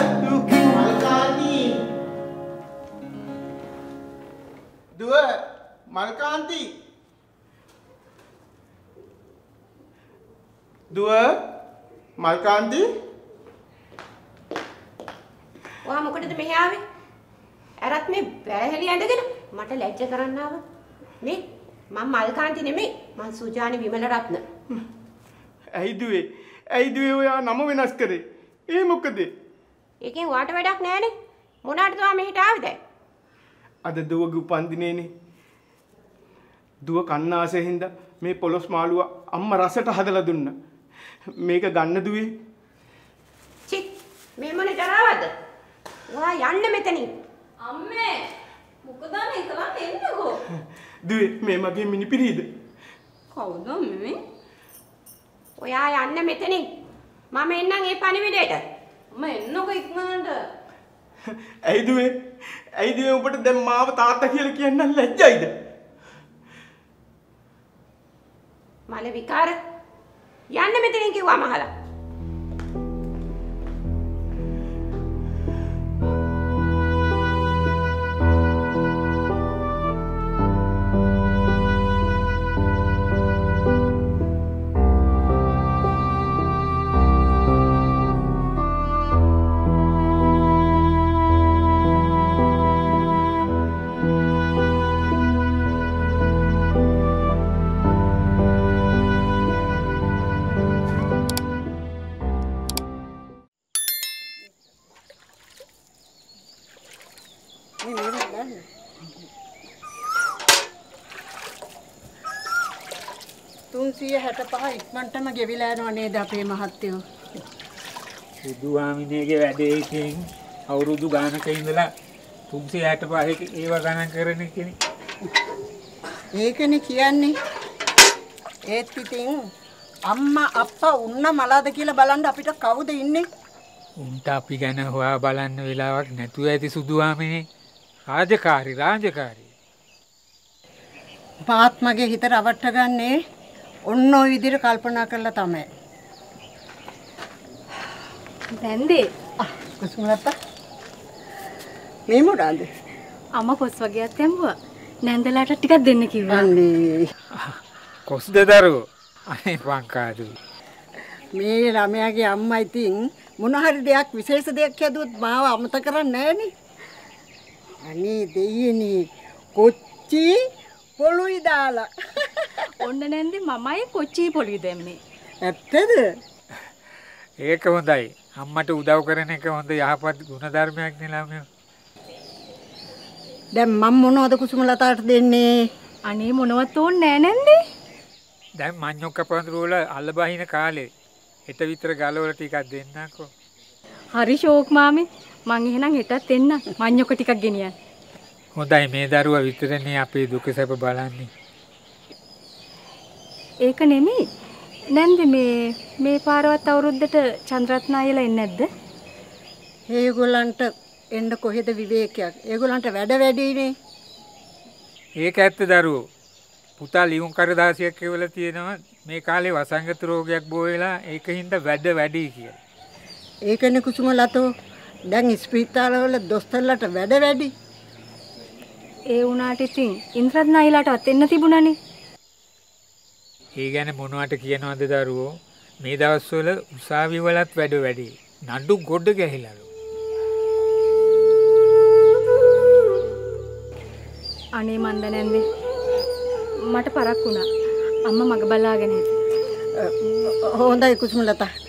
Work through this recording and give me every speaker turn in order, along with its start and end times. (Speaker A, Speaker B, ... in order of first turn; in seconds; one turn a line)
Speaker A: 5.0-5.4
Speaker A: 5.9-6.7
Speaker A: 10.9-11.4
Speaker A: 12.2-12.8
Speaker B: 15.8-16.8
Speaker B: 17.8-20.6
Speaker B: 21.2-24.4
Speaker A: 25.8-29.3
Speaker B: 30.0-31.1
Speaker B: 31.6-32.8
Speaker A: 33.9-35.1
Speaker A: 36.9-40.5
Speaker A: 41.4-42.3
Speaker B: 43.7-45.3
Speaker B: 46.1-47.1
Speaker C: 48.9-50.2
Speaker A: 51.0-52.5
Speaker C: 53.4-54.1
Speaker B: 55.6-56.7
Speaker B: 57.3-58.6
Speaker C: 59.2-60.3
Speaker A: 61.7-62.1
Speaker A: 62.8-65.5
Speaker B: 68.9-69.6
Speaker B: 70.5-71.7
Speaker D: 107.8-108.6
Speaker D: 113.7-117.0
Speaker E: 118.5-121.9
Speaker E: 122.5-124.8
Speaker D: 126.4-127.3
Speaker D: 128.7-129.4
Speaker D: 130.1-133.3
Speaker E: 134.0-137.4
Speaker E: 138.1-139.5
Speaker D: 141.5-143.1
Speaker D: 143.9-145.7
Speaker F: 148.6-149.0
Speaker D: 149.4-150.3
Speaker D: 152.1-152.7
Speaker F: 153.4-154.5
Speaker F: 155.1-156.5
Speaker D: 156.3-157.0
Speaker E: 158.1-158.8
Speaker E: 159.3-160.3
Speaker D: 161.4-166.5
Speaker D: 167.8-169.1
Speaker D: 169.6-170.4
Speaker D: 171.0-172.5
Speaker F: 172.8-175.0
Speaker D: 175.4-176.0
Speaker E: 177.4-181.4
Speaker D: 183.6-185.5
Speaker F: 186.1-187.6
Speaker E: 188.6-190.9
Speaker E: 191.5-193.3
Speaker F: 194.2-197.7
Speaker E: 198.6-201.3
Speaker F: 203.7-204.2
Speaker F: 205.0-205.4
Speaker F: 206.0-208.7
Speaker D: 209.9-213.7
Speaker E: 215.2-216.0
Speaker E: 216.8-222.6
Speaker D: 223.5-224.4
Speaker D: 225.1-227.5
Speaker F: 229.1-231.8
Speaker E: 233.6-235.2
Speaker E: 235.8-239.7
Speaker F: 244.6-245.4
Speaker F: 246.7-247.4
Speaker F: 248.1-249.1
Speaker D: 249.8-251.5